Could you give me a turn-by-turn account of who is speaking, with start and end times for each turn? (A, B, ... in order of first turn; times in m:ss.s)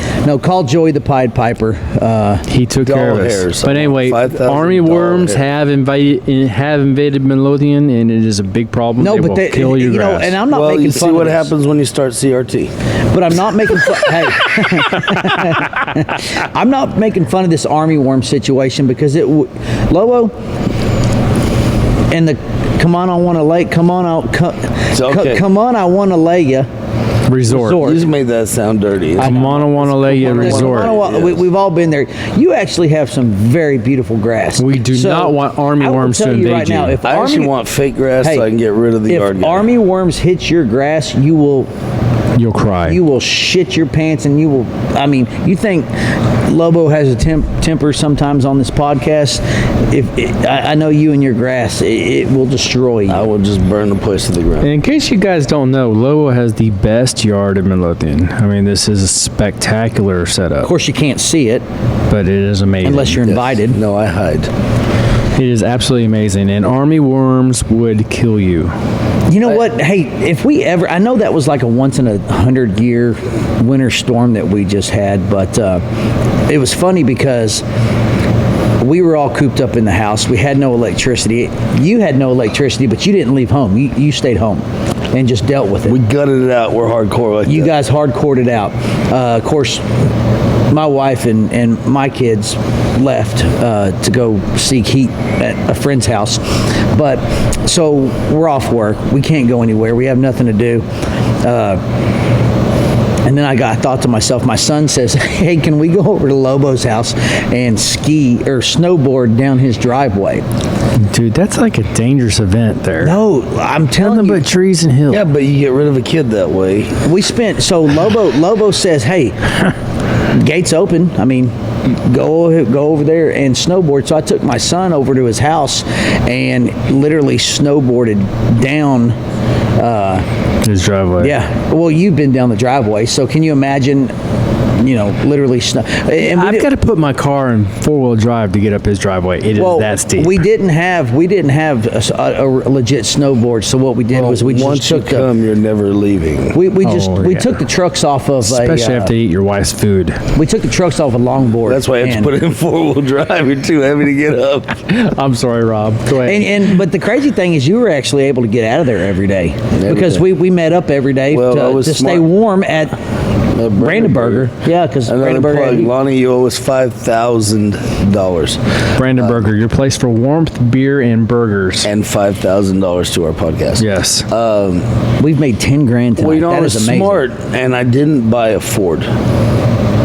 0:00.2-0:02.5 A
0:02.5-0:10.4 B
0:02.8-0:05.5 C
0:09.0-0:11.5 A
0:10.5-0:12.7 C
0:13.1-0:20.3 A
0:22.1-0:26.7 A
0:24.9-0:25.4 C
0:27.3-0:27.8 B
0:27.4-0:28.1 A
0:27.8-0:31.5 C
0:29.2-0:37.6 A
0:29.2-0:31.0 B
0:34.6-0:37.0 B
0:37.0-0:39.7 C
0:38.2-0:38.5 A
0:39.1-0:41.7 A
0:42.4-0:43.0 B
0:42.8-0:53.3 A
0:53.1-0:54.7 C
0:54.6-1:00.7 B
1:00.6-1:01.6 A
1:02.1-1:03.3 B
1:02.8-1:03.8 A
1:03.2-1:04.5 C
1:05.4-1:08.7 B
1:09.3-1:15.8 A
1:16.5-1:17.6 A
1:18.8-1:26.0 A
1:25.9-1:27.8 C
1:27.5-1:29.8 A
1:30.7-1:40.9 A
1:41.4-1:41.8 A
1:43.2-1:50.4 A
1:51.1-1:53.2 B
1:53.0-1:54.5 A
1:54.0-1:55.2 B
1:55.1-1:57.1 C
1:57.0-1:59.7 A
2:00.3-2:09.2 A
2:09.8-2:10.3 A
2:10.6-2:11.4 B
2:11.2-2:14.1 A
2:14.7-2:16.7 A
2:16.2-2:20.4 B
2:19.6-2:25.3 A
2:24.1-2:26.6 C
2:26.5-2:29.1 A
2:26.8-2:27.6 B
2:28.4-2:30.2 B
2:30.3-2:32.3 A
2:31.6-2:34.8 C
2:34.9-2:36.6 B
2:36.2-2:43.0 A
2:39.8-2:40.3 C
2:41.3-2:42.3 C
2:43.5-2:44.5 C
2:43.8-2:46.0 A
2:45.0-2:49.5 C
2:49.0-2:51.9 B
2:51.8-2:54.9 C
2:53.8-2:54.3 B
2:55.2-2:57.2 A
2:56.2-2:59.1 C